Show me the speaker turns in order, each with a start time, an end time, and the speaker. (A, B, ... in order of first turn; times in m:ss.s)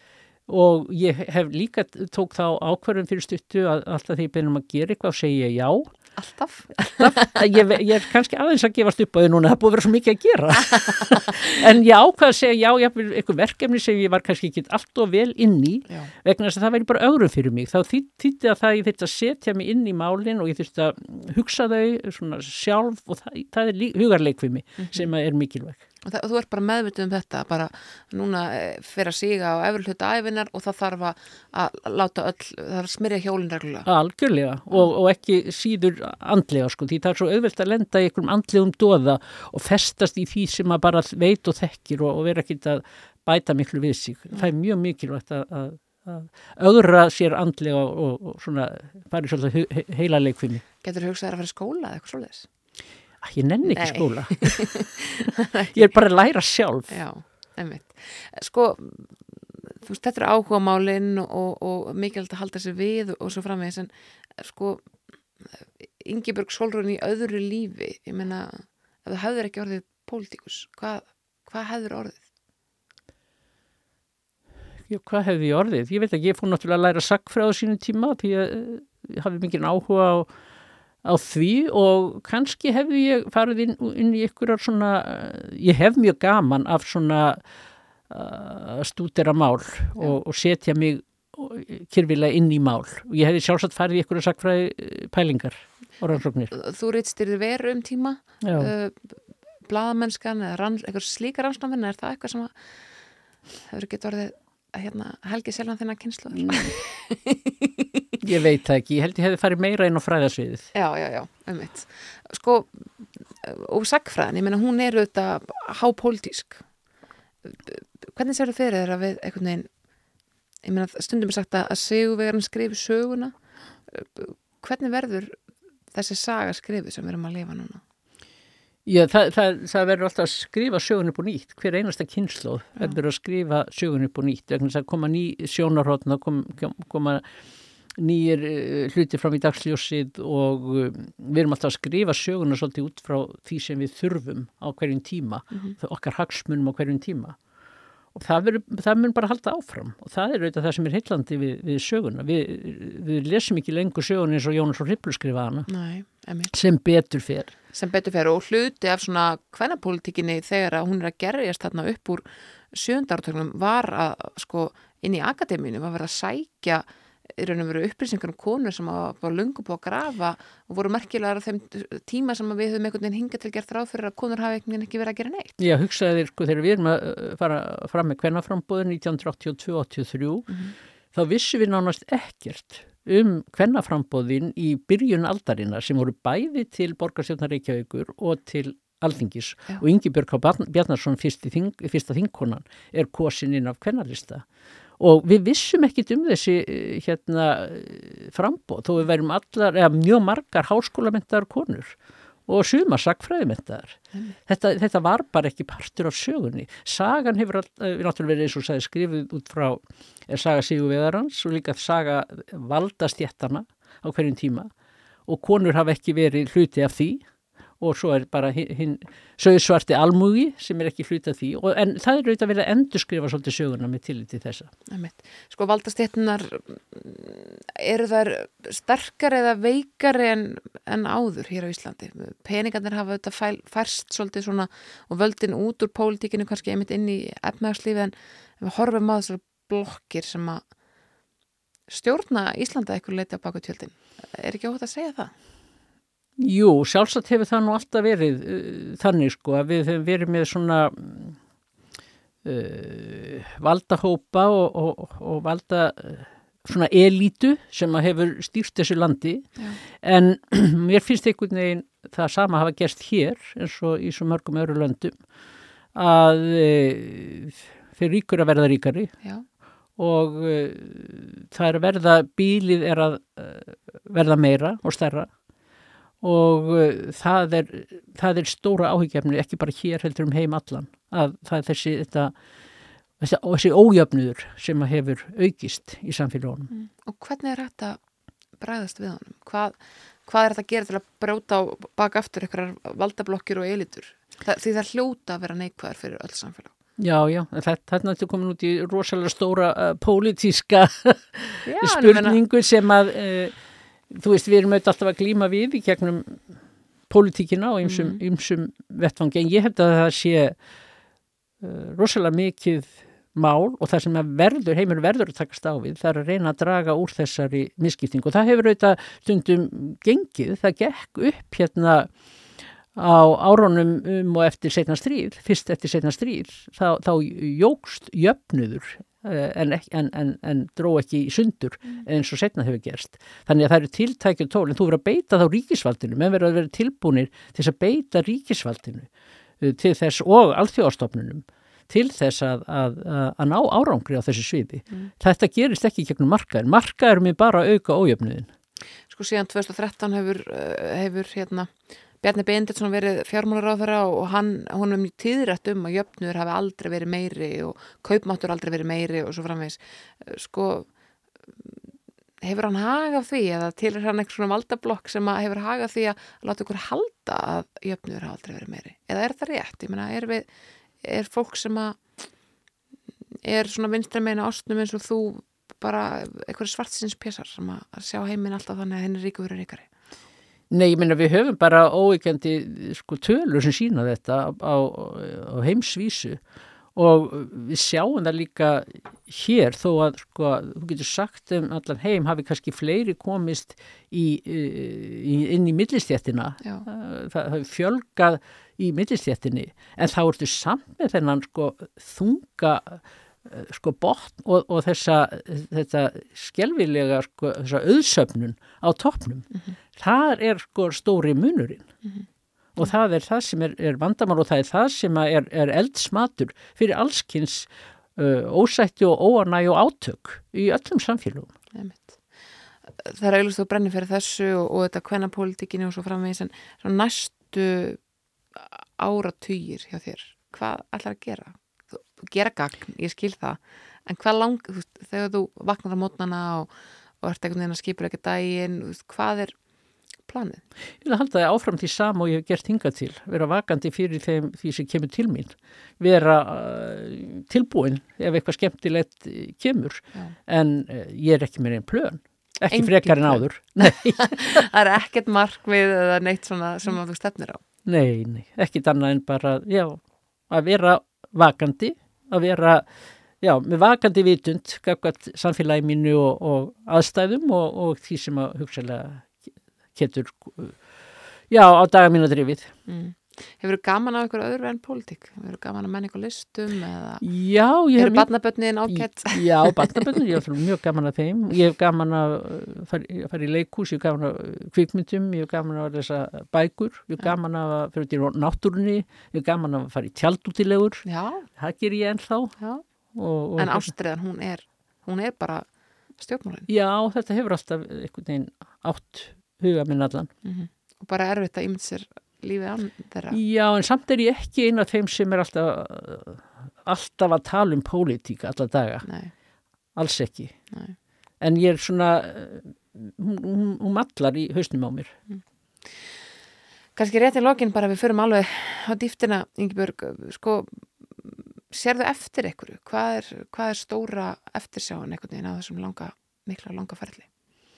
0:00.5-0:05.9 A
0:06.2-0:07.4 B
0:07.0-0:25.8 A
0:24.8-0:25.1 B
0:26.0-0:33.9 B
0:33.9-0:50.6 A
0:50.8-0:52.5 B
0:53.2-0:54.6 A
0:53.7-0:55.9 B
0:55.7-0:57.0 A
0:56.9-1:04.8 B
1:05.8-1:12.2 B
1:14.9-1:20.3 A
1:21.0-1:27.4 A
1:28.1-1:36.5 A
1:36.5-1:42.5 B
1:38.4-1:38.7 A
1:43.7-1:48.0 B
1:46.4-1:46.7 A
1:48.2-1:50.7 A
1:50.7-1:52.8 B
1:53.4-1:56.6 B
1:57.4-1:59.7 B
2:00.6-2:03.3 B
2:03.9-2:05.4 B
2:05.9-2:07.8 B
2:08.9-2:17.2 A
2:18.0-2:27.4 A
2:28.1-2:35.7 A
2:35.7-2:36.5 B
2:36.5-2:37.5 A
2:37.7-2:46.8 B
2:47.4-2:55.6 B
2:55.6-3:00.5 A
3:00.5-3:00.7 B
3:01.1-3:14.4 A
3:15.0-3:22.0 A
3:22.5-3:34.7 A
3:35.3-3:37.2 A
3:37.8-3:44.7 A
3:44.9-4:00.6 B
4:01.9-4:05.3 B
4:06.4-4:11.4 A
4:12.4-4:25.2 A
4:25.9-4:29.1 A
4:30.0-4:35.3 A
4:36.2-4:42.3 A
4:43.2-4:46.7 A
4:46.7-4:48.0 B
4:48.6-4:56.7 B
4:57.0-5:03.6 A
5:01.6-5:02.4 B
5:04.1-5:06.4 A
5:07.1-5:10.6 A
5:07.8-5:08.2 B
5:11.6-5:22.1 A
5:23.0-5:39.1 A
5:39.6-5:48.5 A
5:49.1-6:00.9 B
6:02.4-6:10.5 B
6:11.0-6:12.0 B
6:13.4-6:19.9 B
6:20.7-6:26.4 A
6:27.0-6:51.9 A
6:52.8-7:01.5 A
7:01.7-7:02.2 B
7:03.0-7:08.0 B
7:08.6-7:16.7 B
7:17.2-7:19.6 B
7:20.3-7:20.6 B
7:21.0-7:34.6 A
7:32.7-7:37.6 B
7:37.9-7:42.9 A
7:43.4-7:50.8 A
7:51.5-7:52.7 A
7:52.9-7:57.2 B
7:57.2-7:58.3 A
7:58.0-8:00.2 B
7:58.9-8:11.0 A
8:11.0-8:11.5 B
8:11.6-8:12.6 A
8:13.1-8:13.9 A
8:13.6-8:15.7 B
8:16.2-8:16.7 B
8:16.7-8:20.3 A
8:20.4-8:23.4 B
8:23.3-8:29.1 A
8:29.0-8:29.3 B
8:30.0-8:30.6 A
8:31.4-8:35.1 A
8:37.0-8:47.3 B